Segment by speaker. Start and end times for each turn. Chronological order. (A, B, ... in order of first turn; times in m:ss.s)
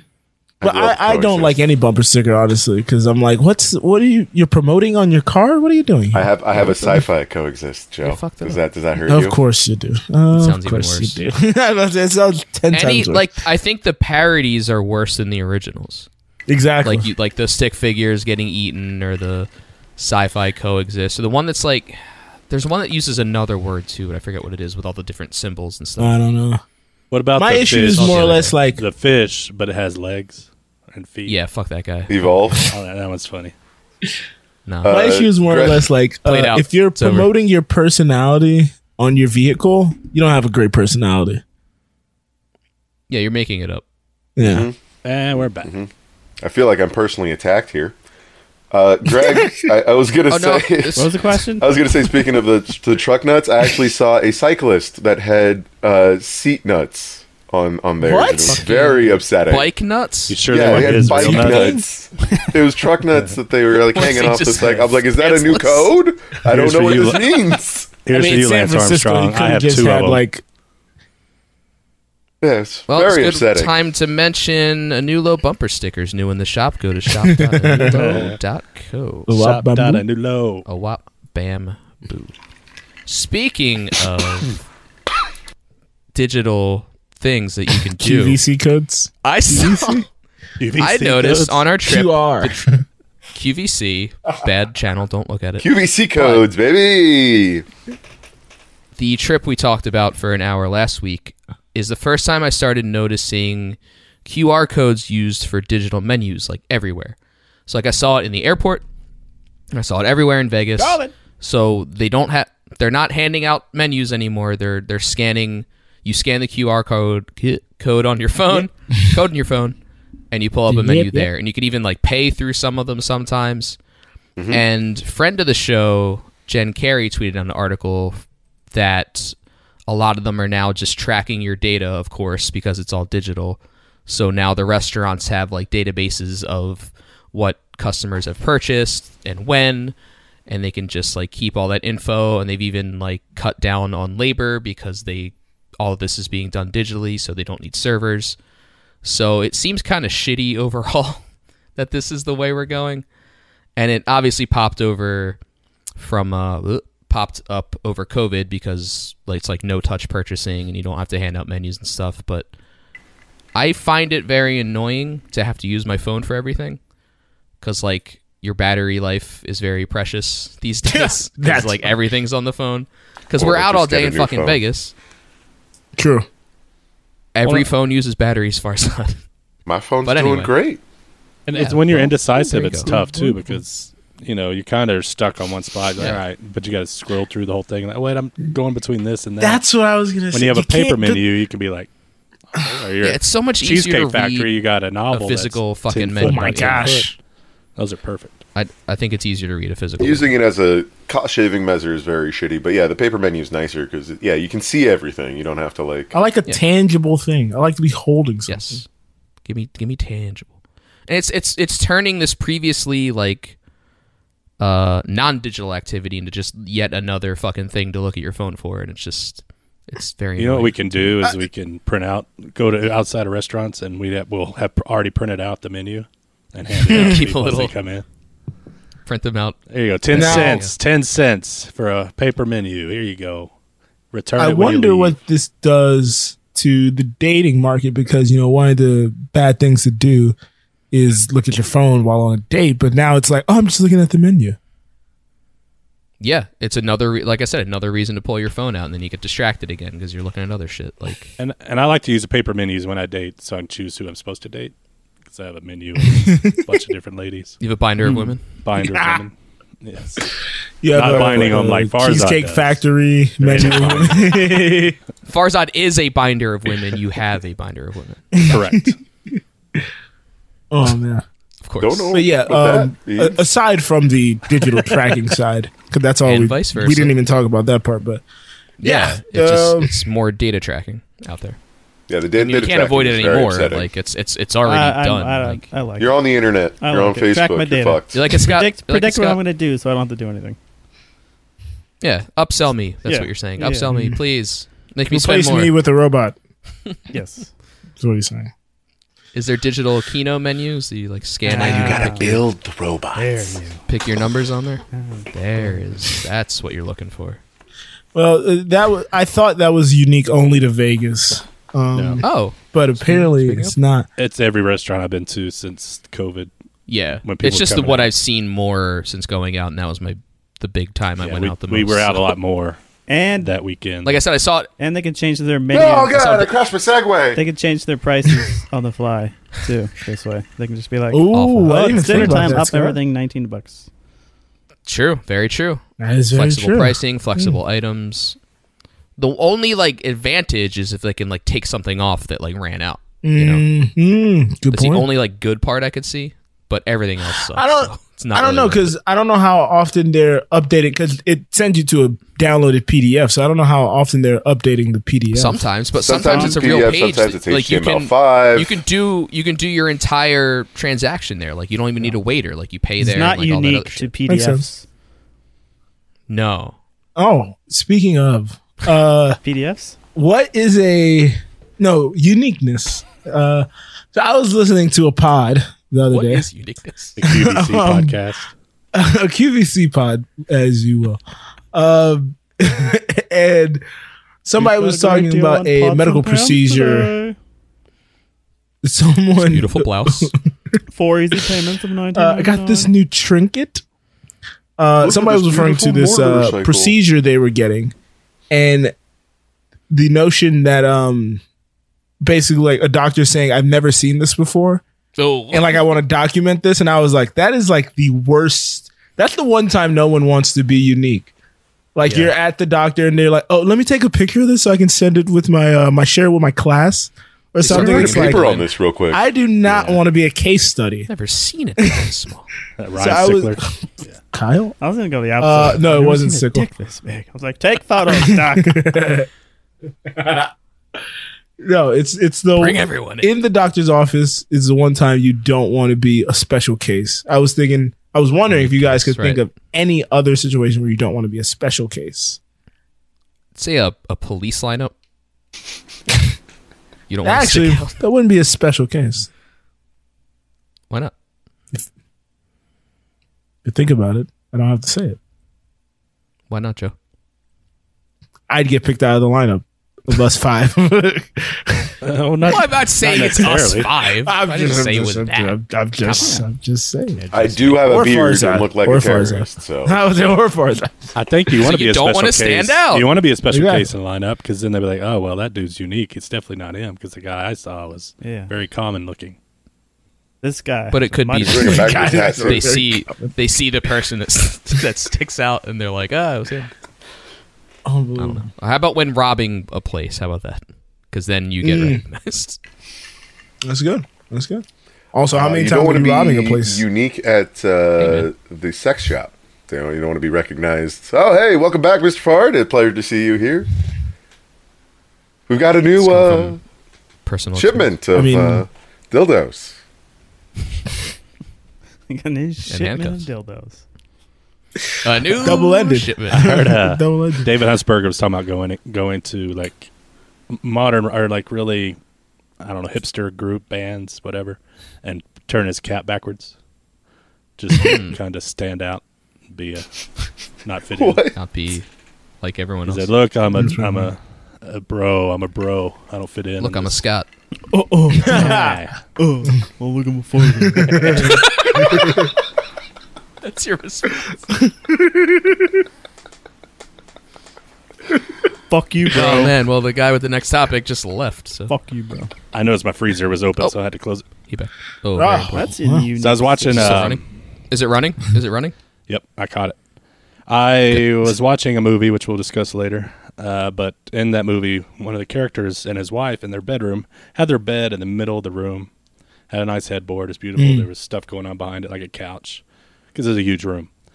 0:00.6-0:01.6 A
0:00.6-0:07.0 B
0:06.1-0:09.4 A
0:08.0-0:08.6 C
0:09.1-0:13.3 B
0:10.3-0:11.2 C
0:12.7-0:16.1 C
0:16.5-0:17.1 B
0:16.8-0:26.2 C
0:26.0-0:26.6 B
0:27.1-0:31.4 D
0:27.3-0:28.8 B
0:27.9-0:28.6 C
0:31.3-0:32.1 C
0:32.1-0:32.7 A
0:32.6-0:33.5 D
0:34.7-0:35.0 C
0:34.8-0:35.9 A
0:34.8-0:41.4 B
0:36.2-0:37.3 C
0:43.1-0:43.8 C
0:44.4-0:44.7 B
0:44.4-0:44.8 A
0:45.0-0:45.7 D
0:45.6-0:45.9 A
0:46.4-0:48.0 A
0:48.7-0:59.7 A
0:49.1-0:49.7 B
0:50.3-0:51.2 C
0:51.0-0:51.8 E
0:58.0-0:58.6 B
0:58.5-1:01.7 C
1:00.3-1:01.8 D
1:00.5-1:07.9 A
1:00.8-1:01.3 B
1:03.9-1:06.0 C
1:06.4-1:07.4 D
1:08.0-1:10.2 D
1:08.1-1:10.4 B
1:12.4-1:13.7 A
1:12.9-1:19.3 C
1:17.2-1:18.2 B
1:17.9-1:18.4 D
1:19.3-1:20.0 B
1:19.3-1:20.7 D
1:20.7-1:22.3 C
1:23.1-1:24.5 C
1:26.1-1:28.4 C
1:28.0-1:30.1 B
1:29.2-1:30.0 C
1:30.6-1:31.6 D
1:30.8-1:32.7 C
1:31.9-1:32.8 B
1:33.3-1:36.5 C
1:35.6-1:37.6 A
1:39.0-1:47.2 C
1:47.7-1:48.8 C
1:49.7-1:59.8 C
1:50.8-1:51.1 E
2:00.3-2:03.8 C
2:00.7-2:01.3 B
2:04.4-2:04.6 A
2:04.5-2:09.4 C
2:09.9-2:20.0 C
2:20.5-2:28.4 C
2:29.0-2:31.2 C
2:31.8-2:33.0 C
2:33.8-2:35.4 C
2:36.0-2:42.5 C
2:43.6-2:46.8 C
2:47.6-2:55.0 C
2:50.9-2:52.0 B
2:53.4-2:54.6 A
2:56.0-2:56.3 B
2:57.3-2:59.2 C
2:59.7-3:00.8 A
3:00.0-3:00.5 C
3:01.5-3:09.6 D
3:01.5-3:02.9 C
3:02.9-3:03.6 B
3:09.4-3:11.2 B
3:10.3-3:11.9 D
3:12.5-3:17.1 D
3:13.0-3:14.5 C
3:15.1-3:16.9 C
3:15.9-3:17.1 B
3:17.8-3:18.4 D
3:18.6-3:20.3 C
3:20.0-3:26.2 A
3:26.1-3:28.8 B
3:28.5-3:28.9 C
3:29.4-3:30.5 C
3:31.1-3:33.6 C
3:34.6-3:40.8 C
3:40.4-3:48.0 D
3:46.9-3:47.7 C
3:49.1-3:49.6 C
3:49.7-3:53.5 D
3:50.1-3:50.7 C
3:50.1-3:50.7 B
3:54.1-3:55.2 D
3:54.4-4:00.4 B
4:00.9-4:04.6 B
4:06.2-4:11.3 C
4:11.4-4:14.7 D
4:15.3-4:17.6 D
4:17.6-4:18.4 C
4:18.0-4:18.4 E
4:18.6-4:20.3 D
4:18.8-4:19.2 B
4:20.8-4:25.0 B
4:20.9-4:22.8 D
4:23.4-4:24.4 D
4:25.3-4:28.2 C
4:28.3-4:29.0 B
4:28.5-4:29.0 D
4:30.7-4:31.2 B
4:31.6-4:32.2 C
4:31.8-4:33.4 A
4:32.1-4:38.2 B
4:36.2-4:37.1 C
4:38.8-4:41.6 C
4:38.8-4:40.0 B
4:42.1-4:43.9 A
4:42.4-4:45.6 C
4:44.6-4:50.6 E
4:46.0-4:48.2 A
4:48.1-4:49.4 C
4:52.0-4:55.8 C
4:53.0-4:53.9 E
4:53.9-4:54.2 B
4:55.1-4:56.4 B
4:57.1-4:57.5 E
4:58.0-4:58.5 B
4:59.3-5:02.4 C
5:01.5-5:02.3 E
5:01.6-5:03.6 A
5:01.6-5:02.1 B
5:03.2-5:03.8 E
5:03.9-5:07.4 C
5:04.9-5:05.8 E
5:08.1-5:14.1 B
5:11.9-5:12.2 D
5:12.2-5:13.8 C
5:14.2-5:16.5 D
5:16.9-5:22.3 C
5:17.2-5:18.1 D
5:21.2-5:22.8 D
5:23.1-5:23.5 E
5:23.4-5:24.2 D
5:24.0-5:24.7 C
5:24.8-5:26.6 E
5:25.7-5:27.4 A
5:27.3-5:33.9 E
5:31.1-5:33.0 B
5:31.3-5:32.6 C
5:34.9-5:38.4 C
5:36.0-5:37.6 B
5:39.2-5:43.7 C
5:43.2-5:45.1 B
5:44.7-5:48.9 C
5:47.3-5:55.6 B
5:55.3-6:04.1 C
5:56.0-5:58.8 A
5:56.2-5:56.6 E
6:03.0-6:04.8 E
6:04.3-6:04.7 B
6:06.3-6:06.8 C
6:07.2-6:09.4 B
6:09.4-6:10.0 E
6:10.2-6:16.5 B
6:16.1-6:17.2 C
6:17.2-6:18.5 D
6:17.2-6:18.2 B
6:18.9-6:21.2 B
6:21.7-6:23.8 B
6:24.4-6:27.1 B
6:24.6-6:27.4 E
6:28.8-6:30.8 B
6:29.4-6:30.3 C
6:30.9-6:32.9 E
6:32.1-6:33.8 B
6:34.8-6:37.9 B
6:35.0-6:37.0 A
6:38.5-6:38.9 B
6:39.9-6:41.4 B
6:42.2-6:44.8 B
6:45.2-6:45.8 C
6:45.5-6:51.3 B
6:52.0-6:58.6 B
6:52.0-6:52.3 C
6:57.6-6:58.7 C
6:57.6-6:59.2 A
6:59.1-7:01.1 B
6:59.7-7:00.0 C
7:01.1-7:02.5 C
7:01.8-7:02.1 B
7:02.8-7:03.6 D
7:03.0-7:03.7 B
7:04.3-7:04.8 B
7:04.8-7:08.9 E
7:05.4-7:06.6 B
7:08.1-7:09.3 B
7:10.1-7:10.5 B
7:11.6-7:22.4 B
7:12.6-7:13.3 C
7:18.5-7:19.4 C
7:23.6-7:24.9 C
7:27.1-7:28.0 C
7:27.2-7:29.3 B
7:33.6-7:35.2 B
7:36.5-7:36.9 C
7:38.5-7:41.9 B
7:42.0-7:43.9 D
7:42.5-7:46.4 C
7:43.3-7:47.2 B
7:47.2-7:47.8 C
7:47.3-7:50.0 A
7:47.8-7:51.1 B
7:51.2-7:59.4 D
7:51.6-7:53.1 C
7:53.5-7:53.9 B
7:58.2-7:58.5 E
8:00.4-8:02.0 E
8:00.9-8:06.7 C
8:01.4-8:02.7 A
8:01.6-8:03.4 B
8:07.8-8:08.5 B
8:08.2-8:12.6 C
8:11.6-8:12.0 B
8:13.6-8:16.8 B
8:15.3-8:23.7 A
8:18.0-8:18.3 C
8:25.5-8:26.6 A
8:26.0-8:26.6 C
8:27.3-8:27.9 C
8:27.6-8:29.8 A
8:28.1-8:28.6 B
8:32.1-8:33.8 E
8:32.7-8:33.3 C
8:35.0-8:36.5 C
8:35.4-8:37.5 B
8:36.4-8:39.9 D
8:40.5-8:42.0 D
8:42.6-8:46.5 D
8:47.6-8:51.3 D
8:47.8-8:48.2 C
8:51.0-8:51.4 A
8:51.4-8:51.9 C
8:52.4-8:53.1 C
8:52.9-8:57.0 D
8:53.6-8:54.1 B
8:56.6-8:57.3 C
8:57.7-8:59.5 B
8:58.3-8:58.7 E
8:58.3-8:59.0 D
8:59.3-9:01.6 E
9:00.6-9:01.3 B
9:01.3-9:01.9 C
9:01.8-9:02.3 B
9:03.4-9:04.4 C
9:04.6-9:05.6 B
9:08.7-9:09.6 E
9:09.1-9:11.7 C
9:11.7-9:12.3 E
9:12.5-9:14.3 D
9:14.5-9:15.7 C
9:15.2-9:16.1 B
9:15.5-9:17.2 E
9:16.2-9:17.2 D
9:16.7-9:18.8 C
9:19.1-9:19.8 D
9:20.5-9:28.9 D
9:29.5-9:32.6 D
9:30.6-9:30.9 B
9:33.1-9:33.9 D